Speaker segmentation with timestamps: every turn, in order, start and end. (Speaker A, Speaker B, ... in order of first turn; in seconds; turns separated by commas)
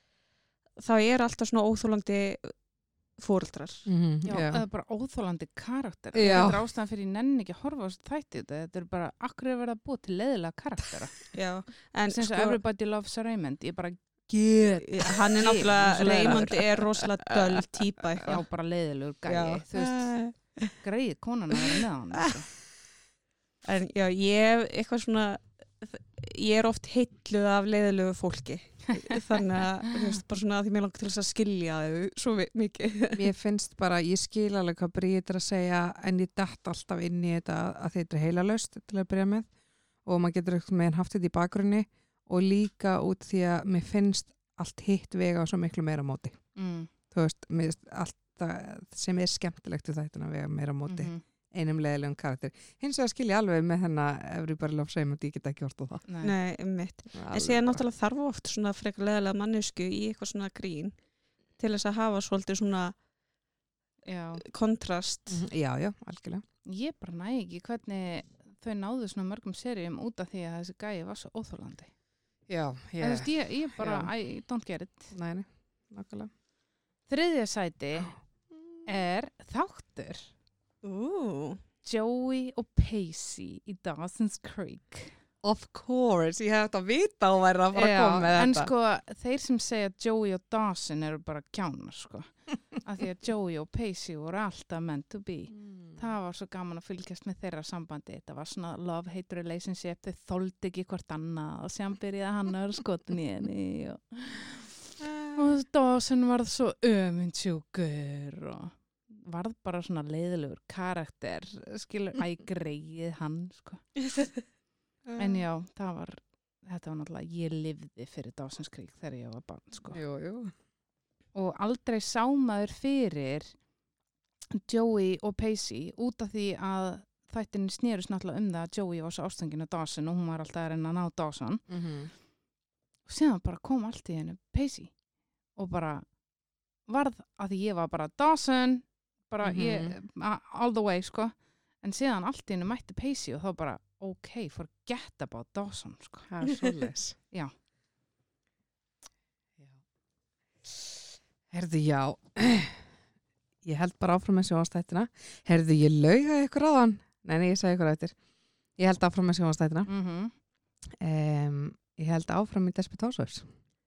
Speaker A: 0.8-2.5, Speaker A: 3.2-3.9, Speaker B: 3.9-4.6, Speaker C: 4.3-11.3, Speaker B: 6.2-6.6, Speaker A: 11.3-12.6, Speaker C: 12.1-16.8, Speaker B: 14.3-15.1, Speaker A: 14.8-18.4, Speaker C: 18.2-20.1, Speaker A: 19.3-19.7, Speaker B: 19.8-20.3, Speaker C: 20.8-22.5, Speaker A: 23.6-33.3, Speaker B: 33.1-39.5, Speaker B: 40.0-46.4, Speaker C: 46.6-46.9, Speaker B: 47.1-56.1, Speaker C: 50.9-51.2, Speaker C: 56.1-56.4, Speaker A: 56.2-61.0, Speaker B: 57.1-57.8, Speaker A: 61.6-63.0, Speaker C: 64.1-64.4, Speaker A: 64.4-65.4, Speaker B: 65.3-66.4, Speaker C: 66.7-71.9, Speaker B: 72.5-74.1, Speaker C: 73.0-75.1, Speaker B: 75.1-76.3, Speaker C: 77.1-78.1, Speaker B: 78.0-78.9, Speaker C: 78.9-80.3, Speaker A: 80.8-81.6, Speaker C: 81.8-85.1, Speaker B: 85.4-88.7, Speaker C: 87.7-114.0, Speaker B: 95.6-96.0, Speaker B: 105.0-105.4, Speaker B: 115.1-115.4, Speaker C: 115.2-120.0, Speaker B: 119.9-120.5, Speaker C: 121.3-123.5, Speaker C: 124.5-131.6, Speaker B: 131.7-132.1, Speaker C: 133.1-134.9, Speaker C: 135.6-136.1, Speaker C: 136.9-146.3, Speaker B: 139.4-139.9, Speaker B: 146.3-147.2, Speaker B: 151.5-152.8, Speaker B: 153.6-158.2, Speaker B: 158.8-159.9, Speaker C: 159.9-160.3, Speaker B: 161.0-163.5